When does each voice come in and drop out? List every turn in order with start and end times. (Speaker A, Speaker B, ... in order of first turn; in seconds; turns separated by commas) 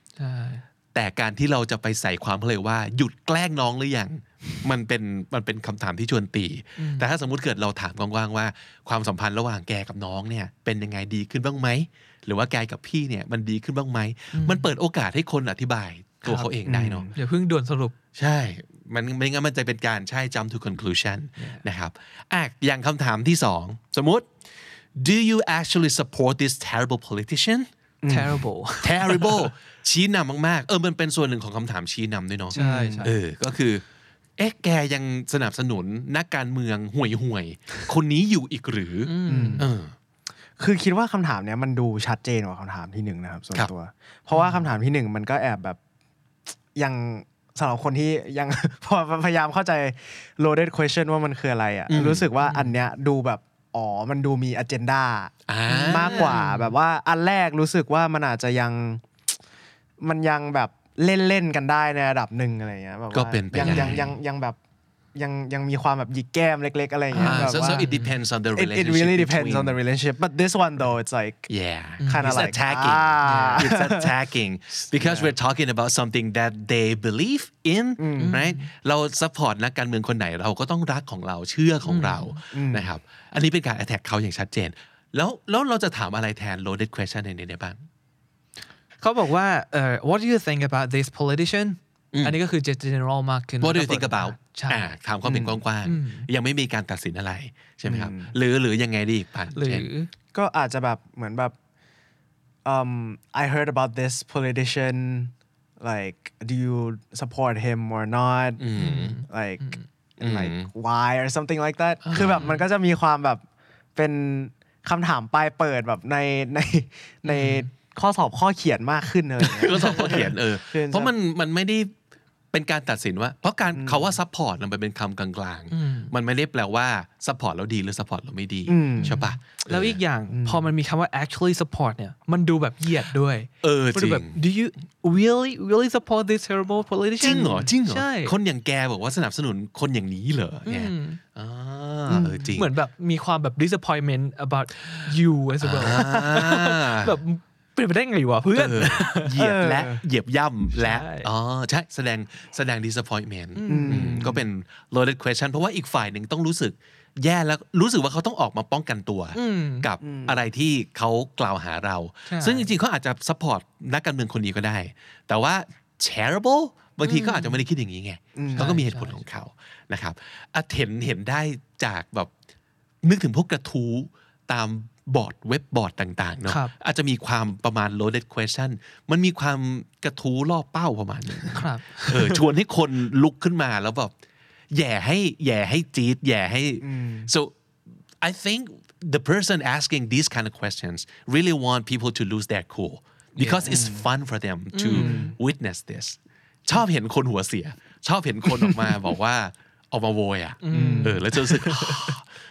Speaker A: 0.2-0.6, Speaker B: 0.9-17.1, Speaker A: 6.8-7.1, Speaker A: 14.3-14.7, Speaker A: 16.2-16.5, Speaker C: 16.6-17.1, Speaker A: 17.1-17.9, Speaker B: 18.2-24.3, Speaker A: 21.4-21.6, Speaker B: 24.9-27.7, Speaker C: 28.0-28.4, Speaker A: 28.1-29.4, Speaker B: 28.8-33.8, Speaker C: 32.5-33.1, Speaker A: 32.5-33.1, Speaker B: 34.4-39.9, Speaker A: 39.1-39.7, Speaker C: 39.3-39.7, Speaker C: 40.6-45.8, Speaker A: 44.3-44.7, Speaker C: 46.8-55.3, Speaker B: 51.9-52.3, Speaker A: 52.4-52.8, Speaker B: 55.5-56.4, Speaker A: 55.7-56.7, Speaker C: 55.8-59.0, Speaker C: 60.0-64.6, Speaker B: 63.1-64.2, Speaker A: 63.6-64.0, Speaker C: 65.2-68.0, Speaker A: 67.1-68.1, Speaker B: 67.1-69.8, Speaker C: 68.5-71.5, Speaker B: 71.5-87.9, Speaker A: 72.0-72.5, Speaker C: 72.0-74.1, Speaker A: 73.2-73.7, Speaker C: 74.9-75.3, Speaker C: 78.0-78.4, Speaker A: 78.2-78.7, Speaker A: 81.8-82.3, Speaker C: 82.5-82.9, Speaker A: 89.0-94.9, Speaker B: 93.6-99.9, Speaker C: 95.2-95.6, Speaker A: 95.8-96.3, Speaker C: 97.8-98.3, Speaker A: 99.5-100.1, Speaker C: 100.3-101.5, Speaker C: 102.7-113.4, Speaker B: 108.6-109.2, Speaker A: 108.8-109.8, Speaker B: 110.2-110.7, Speaker B: 112.0-112.5, Speaker A: 112.3-112.6, Speaker C: 114.0-121.1, Speaker A: 117.3-117.7, Speaker B: 119.4-121.9, Speaker B: 122.5-130.0, Speaker C: 123.8-124.1, Speaker A: 125.7-126.1, Speaker C: 128.7-129.2, Speaker A: 129.0-138.3, Speaker C: 130.3-130.7, Speaker B: 133.6-134.4, Speaker B: 137.2-142.7, Speaker A: 140.7-141.2, Speaker C: 142.1-142.6, Speaker A: 142.6-149.3, Speaker B: 145.6-147.2, Speaker B: 148.6-172.3, Speaker C: 149.3-150.0, Speaker A: 150.8-151.3, Speaker A: 153.6-154.2, Speaker C: 153.7-154.4, Speaker A: 159.3-159.9, Speaker C: 160.0-160.4, Speaker A: 162.3-162.7, Speaker A: 167.0-167.6, Speaker C: 168.4-168.8, Speaker A: 168.5-169.2, Speaker B: 173.0-184.1, Speaker A: 176.5-176.7, Speaker A: 181.5-182.4, Speaker B: 184.7-187.6, Speaker C: 186.8-187.3, Speaker B: 188.2-202.3, Speaker A: 193.4-193.7, Speaker C: 193.6-194.1, Speaker A: 194.7-195.3, Speaker C: 194.9-195.4, Speaker A: 200.6-202.2, Speaker C: 200.7-201.2